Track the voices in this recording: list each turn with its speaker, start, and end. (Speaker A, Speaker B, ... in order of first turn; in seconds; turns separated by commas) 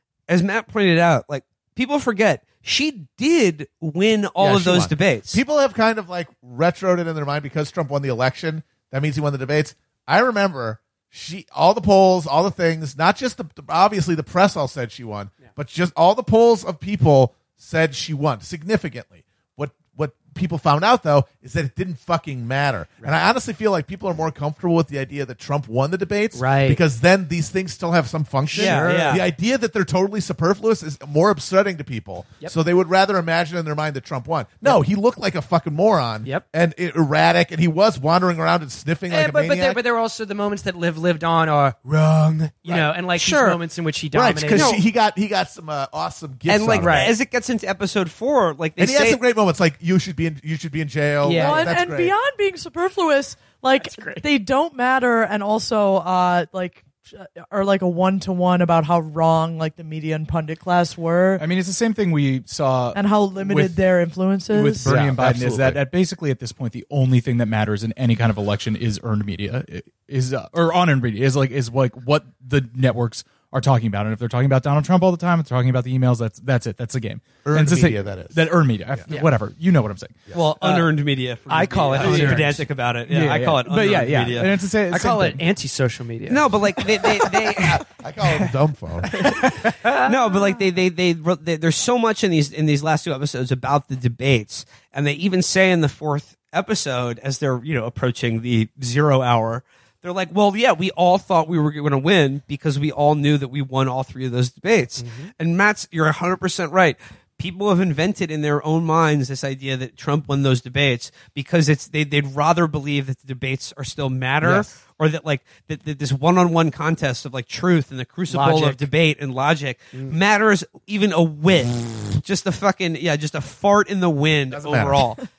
Speaker A: 0.3-5.4, Speaker B: 4.4-39.8, Speaker C: 26.3-26.8, Speaker C: 28.5-29.2, Speaker A: 28.5-29.2, Speaker C: 39.1-44.8, Speaker A: 43.1-43.6, Speaker B: 44.1-47.1, Speaker A: 44.5-44.8, Speaker A: 46.5-49.2, Speaker C: 46.8-47.1, Speaker B: 48.8-52.1, Speaker C: 51.2-51.8, Speaker D: 51.3-61.4, Speaker C: 53.8-54.2, Speaker E: 61.4-63.8, Speaker D: 62.9-64.9, Speaker E: 64.5-80.2, Speaker B: 64.8-65.8, Speaker B: 77.4-78.4, Speaker A: 80.3-84.5, Speaker C: 80.6-80.9, Speaker C: 81.5-82.7, Speaker E: 83.1-85.4, Speaker C: 84.9-87.8, Speaker A: 86.3-87.8, Speaker B: 87.7-89.1, Speaker C: 89.1-90.1, Speaker A: 89.2-125.2, Speaker C: 105.0-105.3, Speaker C: 114.4-114.7, Speaker C: 118.3-118.8, Speaker B: 124.5-125.0